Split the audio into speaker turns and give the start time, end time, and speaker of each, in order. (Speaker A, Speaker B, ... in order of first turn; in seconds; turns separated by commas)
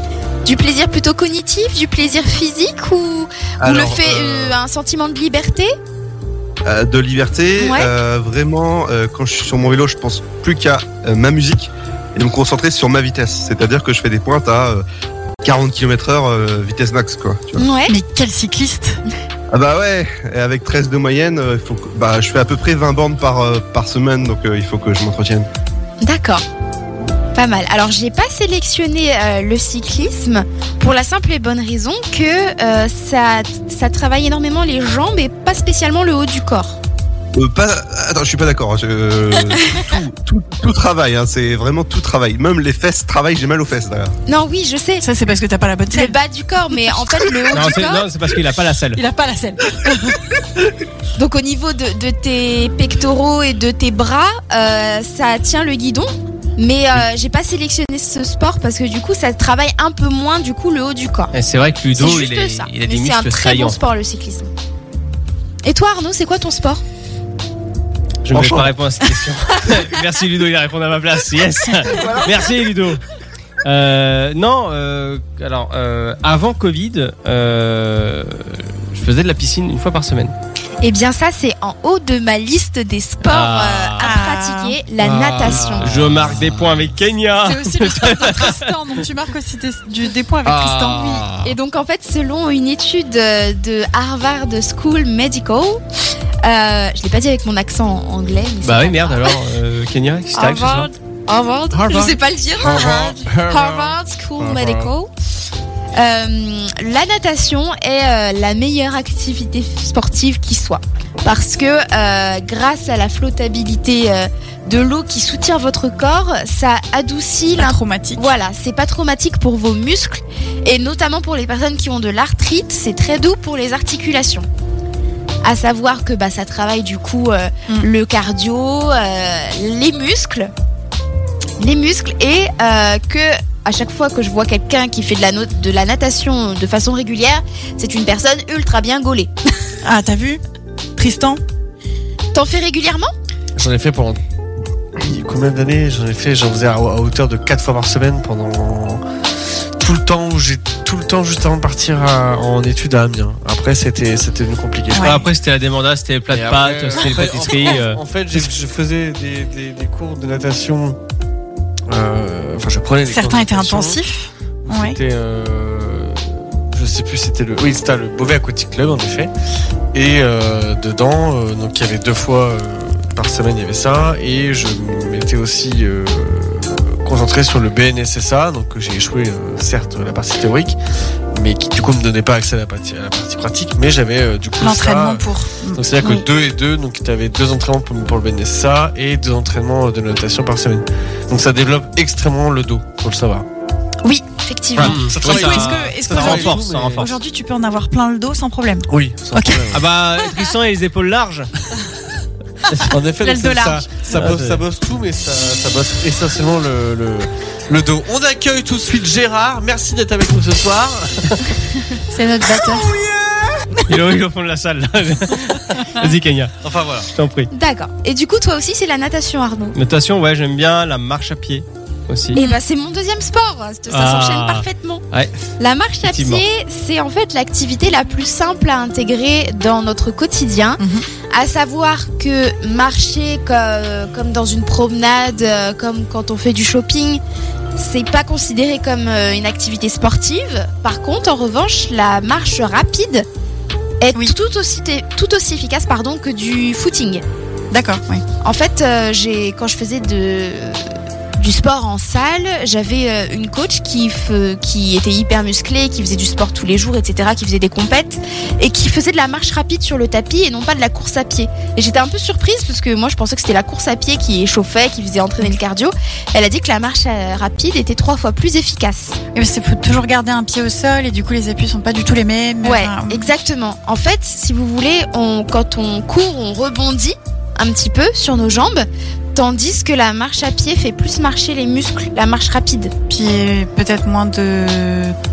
Speaker A: 0.4-5.7, Speaker B: 3.6-4.6, Speaker B: 6.6-14.8, Speaker A: 7.6-7.9, Speaker B: 15.4-17.6, Speaker A: 17.6-17.9, Speaker C: 17.9-19.0, Speaker B: 19.5-25.5, Speaker A: 26.0-26.4, Speaker A: 27.3-36.8, Speaker B: 37.3-44.1, Speaker A: 44.3-45.0, Speaker C: 45.0-46.1, Speaker A: 45.9-48.1, Speaker D: 47.5-49.0, Speaker C: 49.0-50.2, Speaker A: 51.1-61.3, Speaker D: 61.3-63.8, Speaker A: 61.9-64.5, Speaker A: 65.6-66.8, Speaker D: 68.2-73.0, Speaker B: 68.3-68.7, Speaker B: 71.9-72.3, Speaker D: 73.6-80.3, Speaker A: 80.8-85.9, Speaker D: 83.2-84.2, Speaker C: 84.0-84.8, Speaker E: 85.0-86.9, Speaker D: 85.5-88.7, Speaker C: 87.4-91.2, Speaker E: 90.5-91.5, Speaker A: 91.4-95.8, Speaker A: 96.4-99.4, Speaker D: 98.6-100.9, Speaker A: 100.3-105.1, Speaker E: 101.7-104.9, Speaker A: 105.9-124.5, Speaker C: 117.6-118.2, Speaker A: 125.4-130.5, Speaker A: 131.6-139.3, Speaker C: 139.8-140.4, Speaker C: 140.9-141.4, Speaker A: 142.3-143.1, Speaker E: 143.6-144.2, Speaker E: 145.0-149.0, Speaker E: 149.8-155.1, Speaker C: 154.9-155.2, Speaker D: 154.9-158.0, Speaker E: 156.3-161.0, Speaker E: 161.9-164.0, Speaker C: 163.1-165.0, Speaker E: 164.6-169.3, Speaker E: 169.9-180.8, Speaker E: 181.3-193.5, Speaker C: 184.6-185.8, Speaker A: 194.0-195.0, Speaker D: 194.8-197.1, Speaker E: 194.8-197.1, Speaker C: 195.2-198.9, Speaker E: 198.9-199.9, Speaker D: 199.4-201.5, Speaker E: 202.8-211.4, Speaker C: 203.2-203.9, Speaker D: 204.1-204.6, Speaker C: 212.1-212.9, Speaker E: 212.5-213.7, Speaker D: 213.8-216.5, Speaker E: 216.6-217.1, Speaker D: 217.1-217.5, Speaker A: 217.5-219.7, Speaker D: 219.7-222.4, Speaker A: 222.3-225.0, Speaker D: 223.9-225.3, Speaker A: 225.6-237.2, Speaker D: 226.0-226.4, Speaker C: 230.8-231.1, Speaker A: 237.8-243.2, Speaker A: 244.0-247.2, Speaker C: 247.7-248.2, Speaker A: 248.4-250.8, Speaker A: 251.4-269.2, Speaker C: 269.3-273.3, Speaker A: 272.6-282.9, Speaker C: 283.1-285.1